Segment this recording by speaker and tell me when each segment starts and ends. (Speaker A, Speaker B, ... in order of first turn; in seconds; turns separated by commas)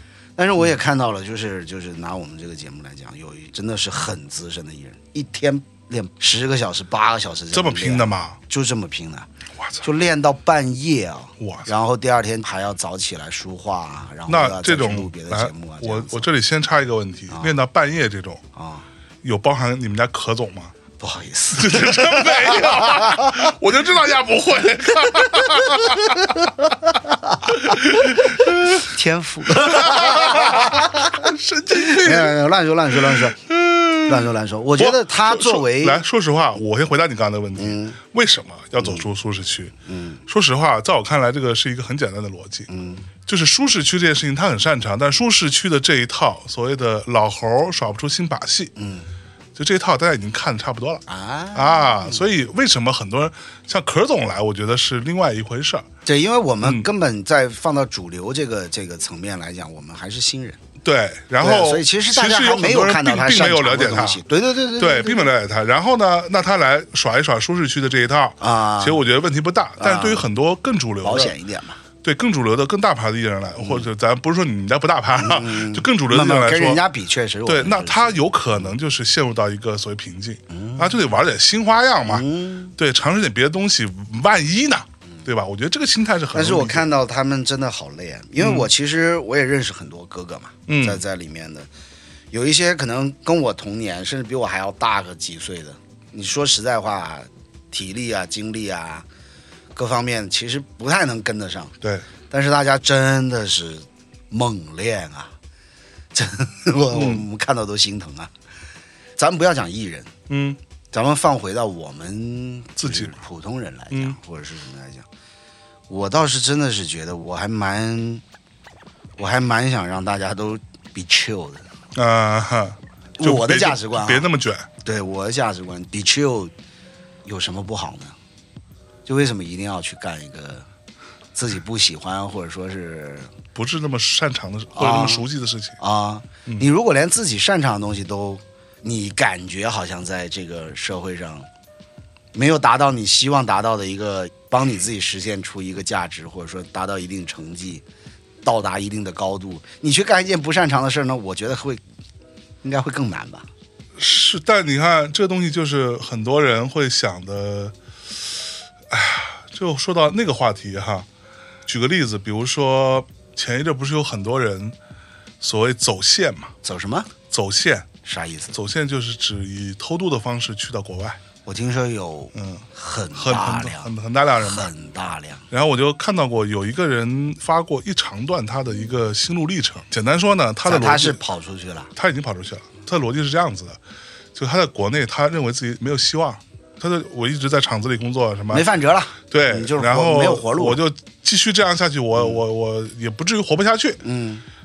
Speaker A: 0.4-9.3, Speaker B: 7.5-8.4, Speaker B: 9.6-9.8, Speaker A: 9.8-16.3, Speaker B: 11.4-11.7, Speaker B: 14.3-18.4, Speaker A: 18.5-18.9, Speaker B: 19.2-20.7, Speaker A: 21.0-23.5, Speaker B: 21.6-26.5, Speaker A: 25.2-33.4, Speaker B: 27.5-28.9, Speaker B: 29.5-32.4, Speaker B: 32.9-39.8, Speaker A: 34.0-36.0, Speaker A: 37.6-38.0, Speaker A: 39.9-40.2, Speaker B: 40.3-42.7, Speaker A: 42.7-43.1, Speaker B: 43.3-48.7, Speaker A: 48.8-49.1, Speaker B: 49.5-51.0, Speaker A: 51.1-52.2, Speaker B: 51.5-55.9, Speaker A: 56.0-60.6, Speaker B: 60.8-64.2, Speaker A: 61.4-65.3, Speaker B: 64.8-71.4, Speaker A: 68.4-69.0, Speaker A: 69.8-70.2, Speaker A: 71.0-71.8, Speaker B: 72.0-76.8, Speaker A: 73.6-73.8, Speaker A: 75.2-78.3, Speaker B: 77.5-82.3, Speaker A: 80.5-81.0, Speaker A: 82.0-82.8, Speaker B: 82.8-86.9, Speaker A: 86.3-91.7, Speaker B: 88.4-88.7, Speaker B: 90.7-91.0, Speaker A: 92.3-99.1, Speaker A: 99.8-101.8, Speaker A: 102.3-105.3, Speaker A: 106.1-108.3, Speaker B: 106.9-107.3, Speaker A: 109.2-110.1, Speaker B: 110.3-110.6, Speaker A: 110.9-115.1, Speaker B: 112.8-113.1, Speaker B: 113.9-114.2, Speaker A: 115.9-118.2, Speaker A: 119.2-121.7, Speaker B: 122.0-124.7, Speaker A: 123.2-124.3, Speaker A: 124.8-126.5, Speaker A: 127.2-128.2, Speaker A: 129.1-130.7, Speaker A: 131.3-133.3, Speaker B: 133.6-135.8, Speaker A: 134.8-135.3, Speaker A: 135.8-141.5, Speaker A: 142.3-147.8, Speaker A: 148.4-151.8, Speaker A: 152.6-153.5, Speaker B: 154.0-157.8, Speaker B: 158.9-161.1, Speaker B: 161.7-164.8, Speaker B: 165.4-166.5, Speaker A: 166.6-167.1, Speaker B: 167.3-167.9, Speaker A: 168.1-168.6, Speaker B: 168.5-171.2, Speaker A: 171.4-175.5, Speaker B: 172.3-174.7, Speaker B: 175.5-181.2, Speaker A: 180.7-181.9, Speaker B: 182.0-183.8, Speaker B: 184.3-188.7, Speaker A: 188.5-190.8, Speaker B: 189.3-194.0, Speaker A: 194.0-194.4